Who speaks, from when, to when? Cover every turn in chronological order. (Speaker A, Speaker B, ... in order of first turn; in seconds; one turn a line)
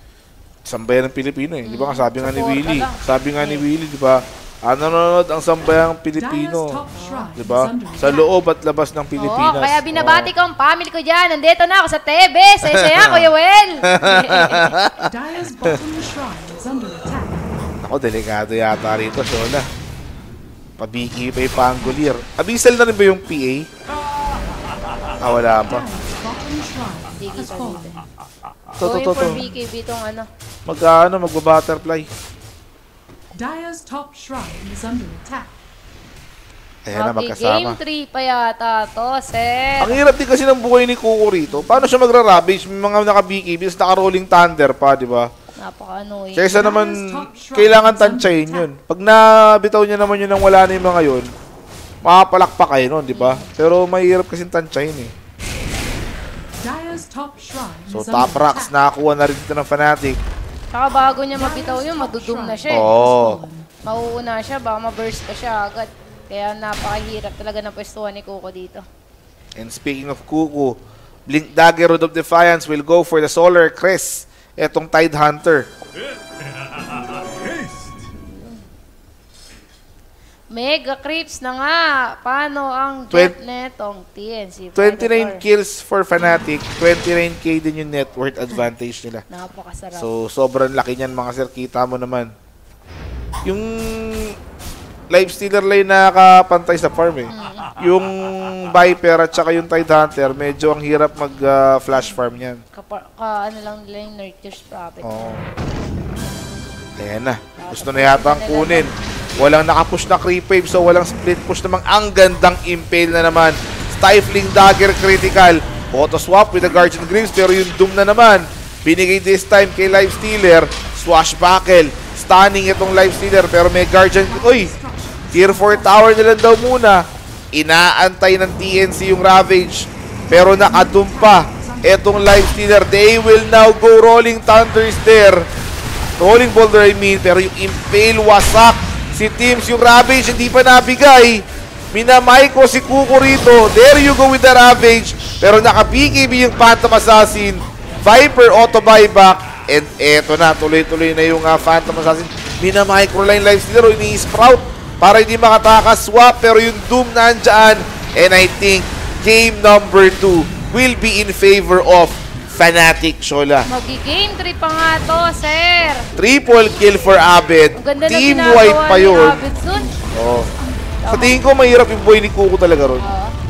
Speaker A: 0.7-6.8
Speaker B: 1.7-3.7
Speaker C: 6.2-8.3
Speaker B: 7.0-7.3
Speaker A: 7.4-10.3
Speaker B: 9.2-14.7
Speaker A: 12.6-13.3
Speaker A: 13.8-15.1
Speaker C: 15.0-17.5
Speaker A: 17.8-19.7
Speaker A: 20.8-23.7
Speaker A: 25.2-25.9
Speaker C: 25.5-28.0
Speaker B: 27.2-28.0
Speaker A: 28.8-29.4
Speaker B: 28.8-30.3
Speaker A: 30.7-32.1
Speaker C: 33.3-35.5
Speaker A: 36.9-37.8
Speaker B: 36.9-40.0
Speaker A: 39.8-45.3
Speaker B: 41.5-41.9
Speaker B: 45.6-46.7
Speaker A: 46.4-51.3
Speaker C: 46.5-48.7
Speaker A: 52.0-55.1
Speaker B: 53.1-53.5
Speaker C: 56.6-58.7
Speaker A: 57.9-60.2
Speaker B: 60.7-62.9
Speaker C: 61.3-63.7
Speaker A: 62.7-63.4
Speaker B: 63.8-68.8
Speaker A: 69.6-70.8
Speaker A: 71.3-75.7
Speaker B: 80.5-85.4
Speaker A: 84.8-89.2
Speaker B: 89.3-90.1
Speaker A: 90.0-92.3
Speaker A: 93.5-94.3
Speaker A: 95.1-102.6
Speaker B: 97.3-97.7
Speaker B: 102.7-105.4
Speaker A: 105.0-105.4
Speaker A: 107.0-124.7
Speaker B: 107.6-109.0
Speaker C: 124.1-126.1
Speaker A: 125.3-135.5
Speaker C: 130.2-132.8
Speaker A: 136.2-163.7
Speaker B: 163.7-167.2
Speaker A: 166.2-169.4
Speaker B: 167.7-169.9
Speaker C: 169.5-171.0
Speaker A: 170.1-170.5
Speaker B: 171.0-171.4
Speaker A: 171.1-173.0
Speaker B: 173.0-173.3